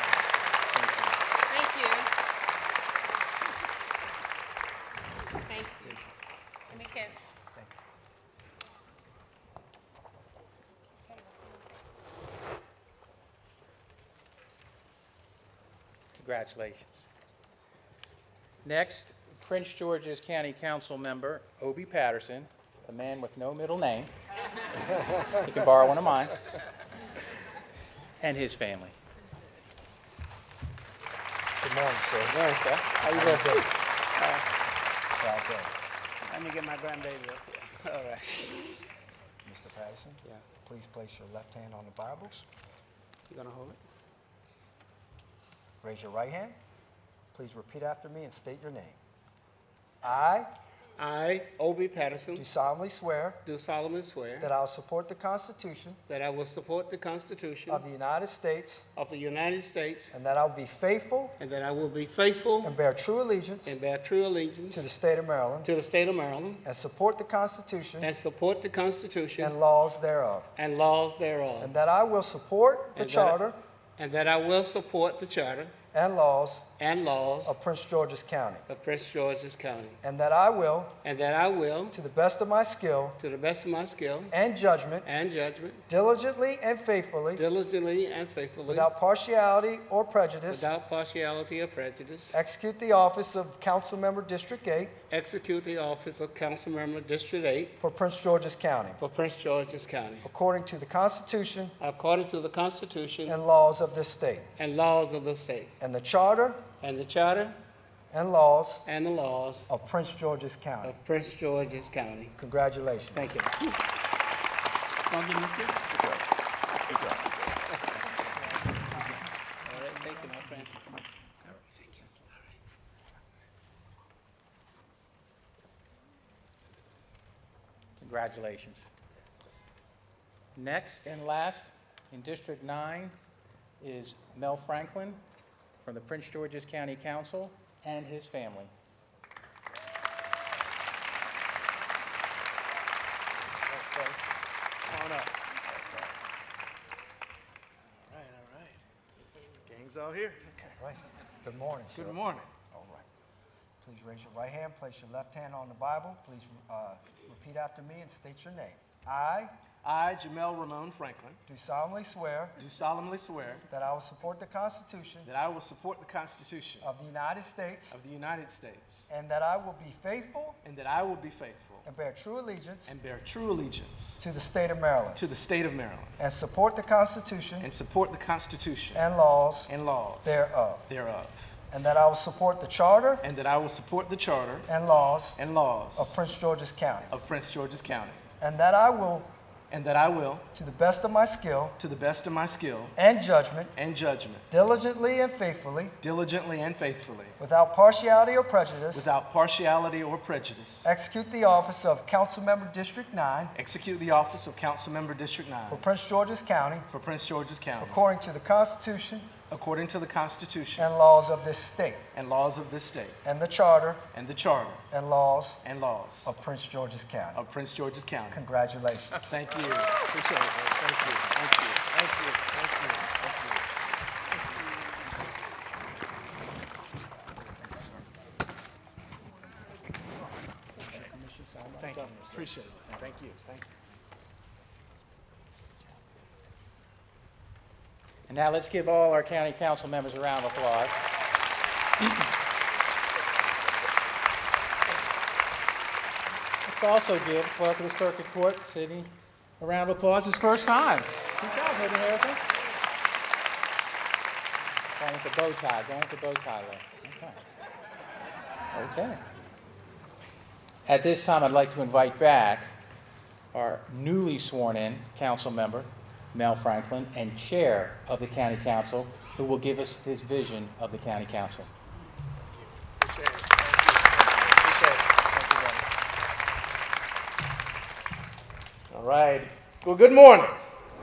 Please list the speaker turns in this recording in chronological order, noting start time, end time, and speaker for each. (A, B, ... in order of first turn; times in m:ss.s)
0:00.7-0:01.1 A
0:01.4-0:02.1 B
0:05.4-0:06.0 B
0:06.7-0:07.1 B
0:11.2-0:11.6 B
0:16.1-0:17.1 A
0:18.6-0:24.1 A
0:25.3-0:26.4 A
0:28.2-0:29.0 A
0:31.6-0:32.4 C
0:32.2-0:34.4 D
0:33.1-0:33.7 C
0:35.2-0:35.7 C
0:36.2-0:39.0 D
0:39.4-0:42.4 C
0:43.3-0:43.8 D
0:45.8-0:46.6 C
0:47.3-0:49.0 C
0:50.0-0:50.5 C
0:51.0-0:52.4 D
0:52.3-0:53.4 C
0:53.4-0:54.5 D
0:54.4-0:56.0 C
0:56.1-0:57.8 D
0:57.7-0:58.8 C
0:58.9-1:00.1 D
1:00.1-1:01.3 C
1:01.4-1:02.7 D
1:02.6-1:03.8 C
1:03.6-1:04.9 D
1:04.7-1:05.7 C
1:05.6-1:06.6 D
1:06.6-1:08.1 C
1:08.0-1:09.6 D
1:09.4-1:10.5 C
1:10.6-1:11.7 D
1:11.6-1:13.6 C
1:12.9-1:13.4 D
1:14.0-1:15.7 D
1:15.9-1:16.6 C
1:16.8-1:17.6 D
1:17.4-1:18.6 C
1:18.7-1:20.0 D
1:20.0-1:20.9 C
1:21.0-1:22.0 D
1:21.9-1:23.2 C
1:23.2-1:24.3 D
1:24.3-1:25.1 C
1:25.0-1:25.8 D
1:25.9-1:27.4 C
1:27.4-1:28.9 D
1:28.6-1:30.7 C
1:30.5-1:32.4 D
1:32.3-1:35.0 C
1:35.1-1:37.7 D
1:37.8-1:39.0 C
1:39.0-1:40.3 D
1:40.2-1:41.8 C
1:41.8-1:43.4 D
1:43.2-1:44.5 C
1:44.6-1:45.7 D
1:45.8-1:46.6 C
1:46.8-1:47.6 D
1:48.1-1:48.8 C
1:48.8-1:49.7 D
1:49.7-1:51.0 C
1:50.8-1:52.3 D
1:52.4-1:53.4 C
1:53.1-1:53.8 D
1:55.1-1:56.2 D
1:56.9-1:57.2 D
1:58.9-2:02.2 D
2:08.0-2:08.9 A
2:10.5-2:13.1 A
2:13.8-2:15.2 A
2:15.8-2:18.7 A
2:23.7-2:24.2 E
2:24.8-2:26.1 E
2:27.8-2:28.8 E
2:29.7-2:30.8 E
2:30.8-2:32.2 C
2:31.9-2:32.5 E
2:32.7-2:33.1 C
2:33.8-2:39.5 C
2:39.8-2:41.4 E
2:41.5-2:42.6 C
2:42.6-2:43.6 E
2:43.7-2:45.3 C
2:45.2-2:46.9 E
2:46.8-2:48.0 C
2:47.9-2:49.1 E
2:49.1-2:50.6 C
2:50.6-2:51.8 E
2:51.8-2:53.0 C
2:52.9-2:54.2 E
2:54.2-2:55.2 C
2:55.1-2:56.2 E
2:56.2-2:57.7 C
2:57.6-2:59.0 E
2:58.9-3:00.9 C
2:59.7-3:01.5 E
3:01.7-3:03.2 C
3:03.2-3:04.7 E
3:04.6-3:05.4 C
3:05.4-3:06.2 E
3:05.9-3:07.2 C
3:07.1-3:08.2 E
3:08.4-3:09.3 C
3:09.7-3:10.5 E
3:10.5-3:11.8 C
3:11.8-3:12.9 E
3:13.0-3:13.7 C
3:13.7-3:14.5 E
3:14.5-3:16.0 C
3:16.0-3:17.4 E
3:17.4-3:19.1 C
3:18.9-3:20.9 E
3:20.8-3:23.5 C
3:23.5-3:25.8 E
3:25.7-3:26.9 C
3:26.9-3:28.0 E
3:27.8-3:29.4 C
3:29.5-3:30.9 E
3:30.8-3:32.0 C
3:32.1-3:33.2 E
3:33.2-3:34.0 C
3:34.1-3:34.8 E
3:34.9-3:35.6 C
3:35.6-3:36.3 E
3:36.2-3:37.4 C
3:37.3-3:38.4 E
3:38.3-3:39.4 C
3:39.3-3:43.7 E
3:47.6-3:48.1 E
3:50.8-3:53.2 C
3:50.8-3:51.1 E
3:51.8-3:53.9 E
3:58.3-4:01.0 A
4:06.6-4:12.4 A
4:15.0-4:17.5 A
4:18.7-4:19.2 A
4:20.8-4:22.7 A
4:23.5-4:31.7 A
4:33.0-4:35.8 E
4:38.9-4:40.6 E